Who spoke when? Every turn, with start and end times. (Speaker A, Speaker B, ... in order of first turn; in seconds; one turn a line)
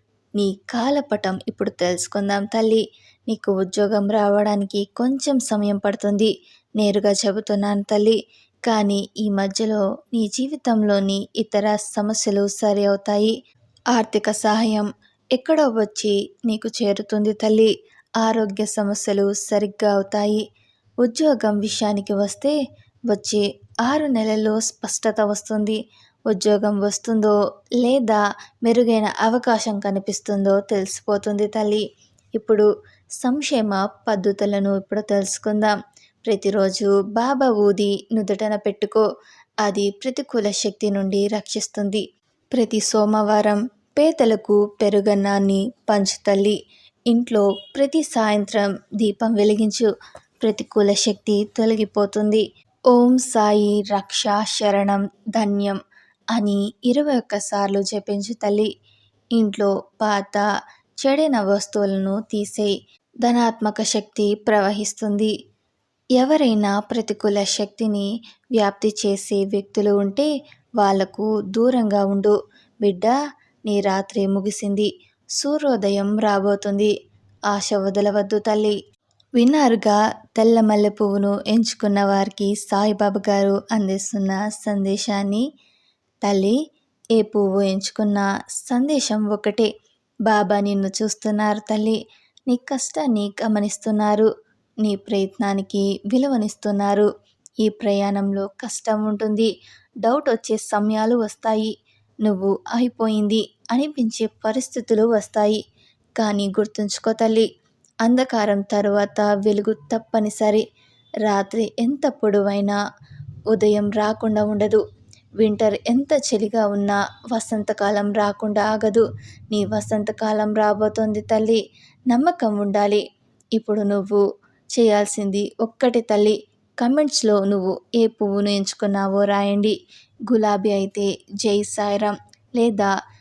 Speaker A: 0.4-13.3
Speaker A: 13.9-20.4
Speaker A: 21.0-22.6
Speaker A: 23.1-31.8
Speaker A: 32.4-32.6
Speaker A: 33.2-35.7
Speaker A: 36.3-39.0
Speaker A: 39.6-42.0
Speaker A: 42.5-46.5
Speaker A: 47.1-49.9
Speaker A: 50.4-55.8
Speaker A: 56.3-58.7
Speaker A: 59.4-60.4
Speaker A: 61.0-65.3
Speaker A: 66.2-70.3
Speaker A: 70.8-73.1
Speaker A: 73.7-76.9
Speaker A: 77.5-78.7
Speaker A: 79.4-85.4
Speaker A: 86.2-86.5
Speaker A: 87.2-89.7
Speaker A: 90.2-92.0
Speaker A: 92.5-94.3
Speaker A: 94.8-97.1
Speaker A: 97.6-99.5
Speaker A: 100.0-101.7
Speaker A: 102.2-105.6
Speaker A: 106.2-107.5
Speaker A: 108.0-110.6
Speaker A: 111.3-112.8
Speaker A: 113.5-114.8
Speaker A: 115.4-123.0
Speaker A: 123.5-124.2
Speaker A: 124.8-129.8
Speaker A: 130.3-132.9